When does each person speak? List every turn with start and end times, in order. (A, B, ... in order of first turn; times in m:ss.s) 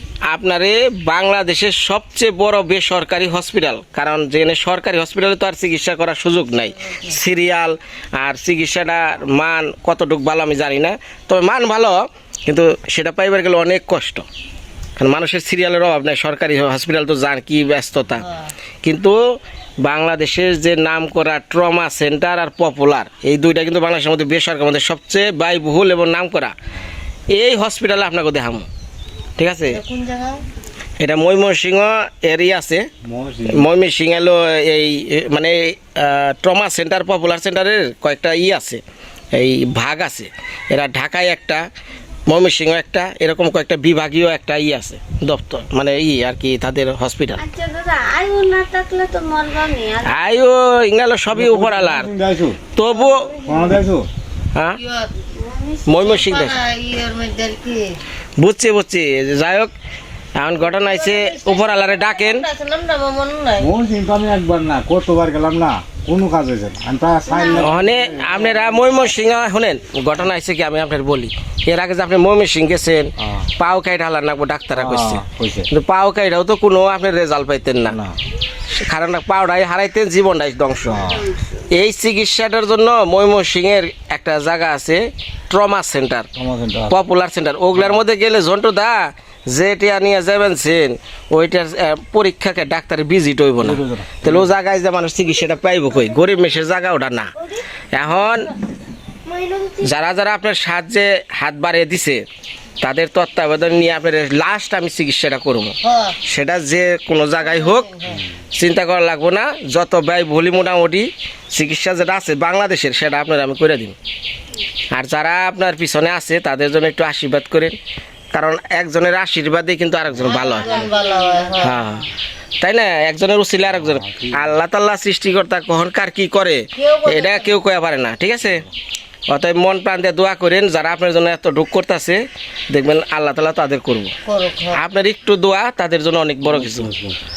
0:00.3-0:14.2 A
0:06.8-0:07.2 B
0:15.0-0:18.2 A
0:18.2-0:18.5 B
0:18.8-0:26.5 A
0:27.3-0:28.7 A
0:29.4-0:29.8 A
0:29.7-0:30.4 B
0:31.0-0:32.9 A
0:33.0-0:33.7 C
0:33.5-0:38.8 A
0:39.3-0:41.6 A
0:42.3-0:47.4 A
0:47.4-0:50.3 D
0:50.0-0:52.1 A
0:51.3-0:52.6 C
0:52.8-0:53.3 A
0:52.9-0:53.7 D
0:53.4-0:54.1 C
0:54.8-0:55.1 B
0:55.3-0:56.2 D
0:55.9-0:56.6 A
0:56.0-0:57.9 B
0:58.4-0:59.7 A
1:00.4-1:02.4 A
1:00.6-1:03.7 B
1:03.6-1:08.9 C
1:07.2-1:08.3 D
1:07.6-1:18.0 A
1:13.2-1:13.5 C
1:14.7-1:15.7 C
1:17.9-1:18.2 C
1:18.7-1:21.0 A
1:20.8-1:21.2 C
1:20.9-1:21.6 D
1:21.7-1:26.3 A
1:26.3-1:27.0 C
1:26.9-1:37.3 A
1:27.7-1:28.0 C
1:33.6-1:34.5 C
1:35.9-1:36.5 D
1:37.9-1:38.5 A
1:39.2-1:39.9 D
1:39.8-1:42.2 A
1:42.8-1:47.9 A
1:45.8-1:46.2 B
1:47.4-1:48.2 B
1:48.5-1:53.9 A
1:54.9-1:57.8 A
1:58.3-2:00.9 A
2:00.2-2:01.8 B
2:00.3-2:02.0 D
2:01.6-2:02.0 A
2:02.6-2:08.6 A
2:03.7-2:04.6 C
2:06.8-2:07.6 B
2:09.3-2:14.1 A
2:14.2-2:14.8 B
2:14.7-2:16.9 A
2:16.4-2:17.2 C